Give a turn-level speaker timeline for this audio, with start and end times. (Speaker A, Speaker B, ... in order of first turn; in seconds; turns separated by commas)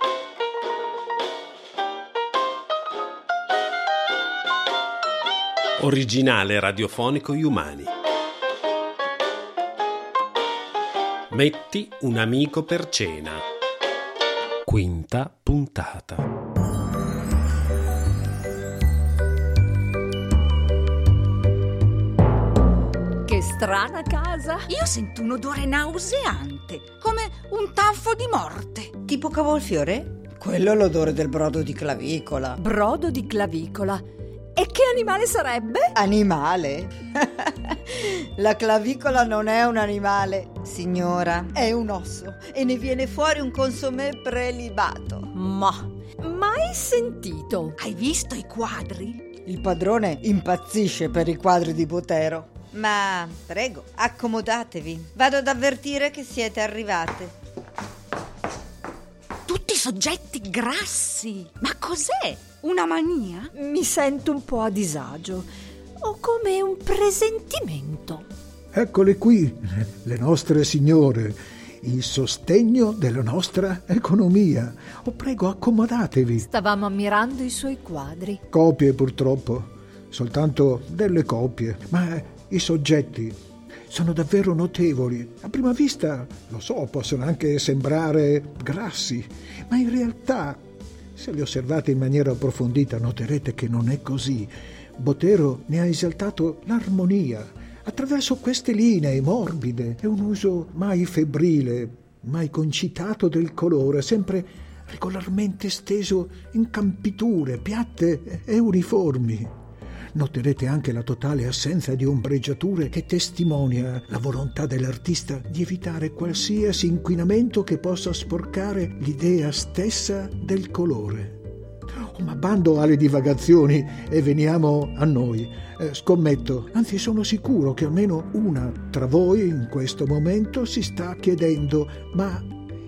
Speaker A: 5.8-7.9, Speaker A: 11.3-13.4, Speaker A: 14.7-16.3, Speaker B: 23.2-24.7, Speaker C: 24.7-29.0, Speaker D: 29.0-32.6, Speaker B: 32.5-34.0, Speaker B: 34.5-35.9, Speaker D: 35.9-45.3, Speaker B: 45.3-47.8, Speaker C: 47.8-49.3, Speaker D: 49.4-57.3, Speaker C: 59.5-63.5, Speaker B: 63.5-65.5, Speaker B: 66.0-68.2, Speaker E: 68.7-76.5, Speaker B: 76.5-78.4, Speaker E: 78.5-83.4, Speaker E: 83.9-90.6, Speaker E: 91.2-109.5, Speaker E: 110.1-121.4, Speaker E: 122.0-132.5